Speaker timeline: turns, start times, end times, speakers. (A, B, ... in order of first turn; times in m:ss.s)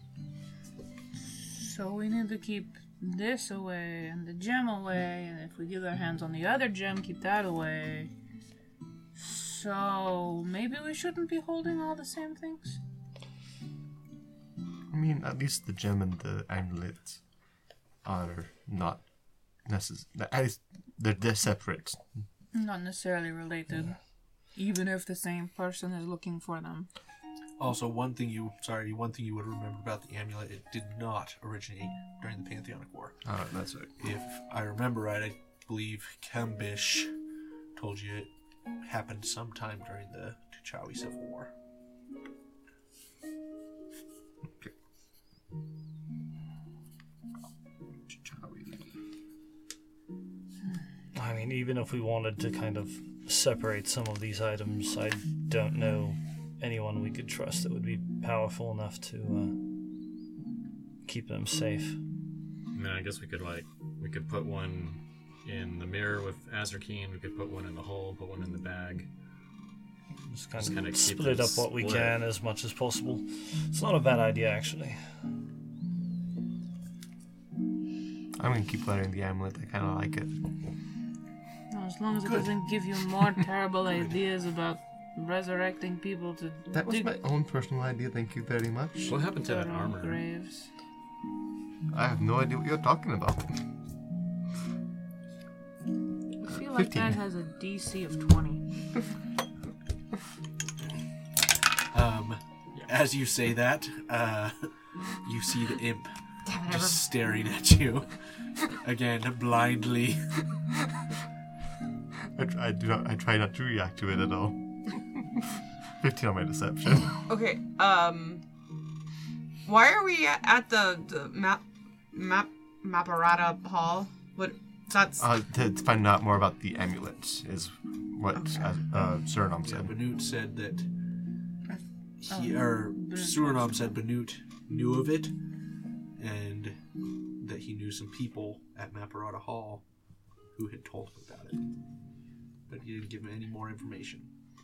0:01.3-0:08.1 A
0:09.1-0:12.8 A
0:14.9-0:17.2 B
0:18.0-0:19.0 B
0:19.6-0:22.0 B
0:22.5-0:24.0 A
0:24.5-0:26.9 A
0:27.6-0:33.2 C
0:33.2-0:33.9 B
0:34.0-0:37.1 C
0:37.7-0:41.5 C
0:48.1-0:48.8 B
0:51.1-0:59.6 D
1:01.1-1:02.0 D
1:02.7-1:09.1 E
1:10.3-1:15.0 D
1:10.6-1:12.2 E
1:18.4-1:20.3 B
1:21.7-1:27.1 A
1:26.7-1:29.2 B
1:29.1-1:30.2 E
1:29.4-1:30.7 A
1:31.9-1:33.6 B
1:36.4-1:38.6 A
1:36.5-1:37.2 B
1:41.9-1:44.7 C
1:45.2-1:48.1 C
1:46.4-1:47.1 F
1:48.7-1:50.4 C
1:52.4-1:55.4 B
1:56.0-1:57.2 B
1:57.2-1:58.4 F
1:59.6-2:05.2 F
2:05.2-2:10.0 B
2:09.6-2:10.9 C
2:12.2-2:15.3 C
2:12.3-2:13.9 A
2:16.2-2:16.8 C
2:17.4-2:19.8 C
2:20.5-2:21.6 C
2:22.7-2:24.3 C